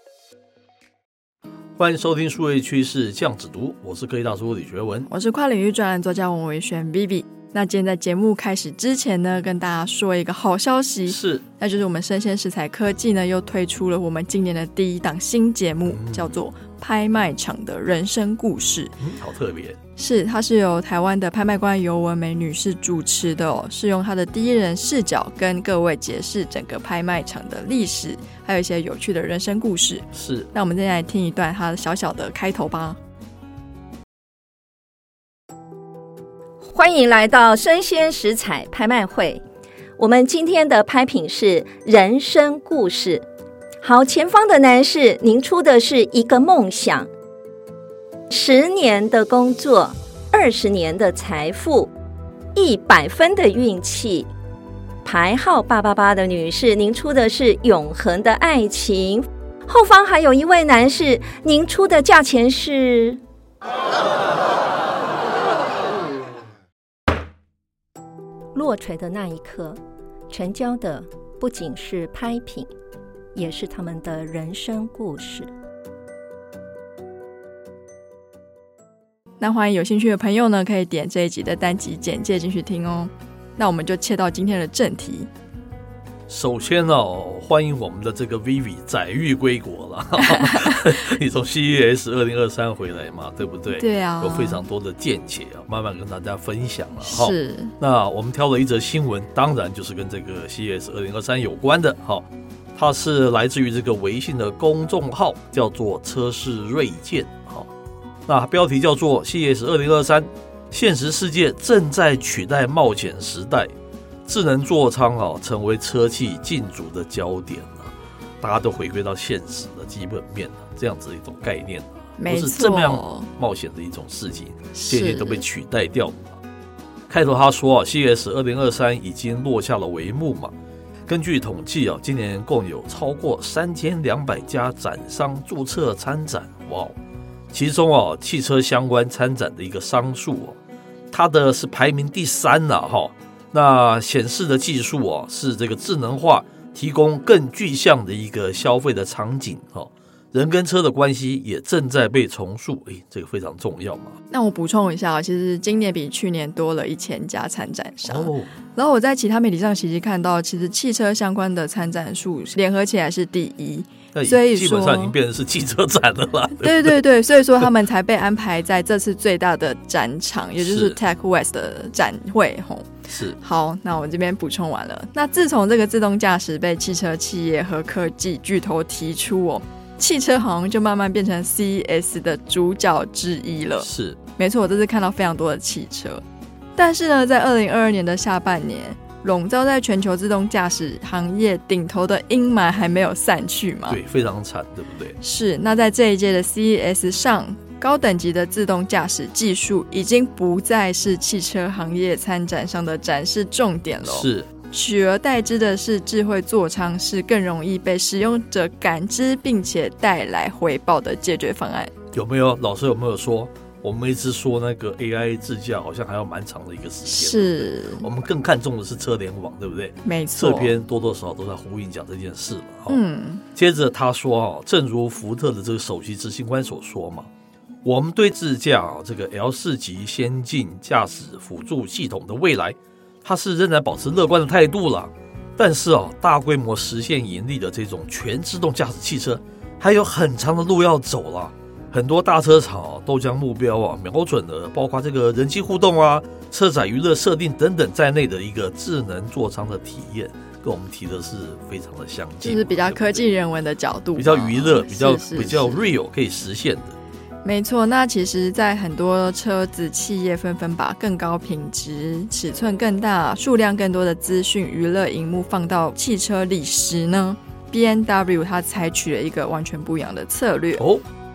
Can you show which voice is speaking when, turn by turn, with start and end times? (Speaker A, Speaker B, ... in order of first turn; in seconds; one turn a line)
Speaker A: 1.8-5.1
Speaker B: 5.1-18.9
Speaker A: 11.0-11.4
Speaker A: 15.8-16.4
Speaker A: 19.0-19.8
Speaker B: 20.0-33.0
Speaker A: 30.1-30.5
Speaker C: 36.6-39.4
Speaker C: 40.0-43.2
Speaker C: 43.8-47.1
Speaker C: 48.3-51.9
Speaker C: 52.5-54.3
Speaker C: 55.0-63.2
Speaker C: 68.5-69.8
Speaker C: 70.3-72.7
Speaker C: 73.3-75.5
Speaker B: 79.4-85.3
Speaker A: 86.3-107.7
Speaker B: 90.2-90.8
Speaker B: 93.8-94.6
Speaker B: 97.0-97.7
Speaker A: 108.3-113.7
Speaker A: 114.2-126.4
Speaker B: 122.2-123.3
Speaker B: 124.8-125.4
Speaker A: 127.1-130.5
Speaker A: 131.1-136.9
Speaker A: 137.5-140.6
Speaker A: 141.1-154.2
Speaker B: 154.3-165.2
Speaker A: 158.0-158.5
Speaker A: 164.1-167.0
Speaker B: 166.6-186.2
Speaker A: 170.6-171.0
Speaker A: 173.1-173.4
Speaker A: 183.8-184.2
Speaker B: 186.8-194.0
Speaker A: 193.9-195.2
Speaker B: 195.2-211.9
Speaker A: 204.0-204.5
Speaker A: 212.1-223.0
Speaker B: 217.1-218.1
Speaker B: 220.0-220.8
Speaker B: 222.9-223.4
Speaker A: 223.5-227.3
Speaker A: 227.8-253.3
Speaker B: 252.4-255.9
Speaker A: 254.2-257.0
Speaker B: 257.4-270.8
Speaker A: 270.8-271.0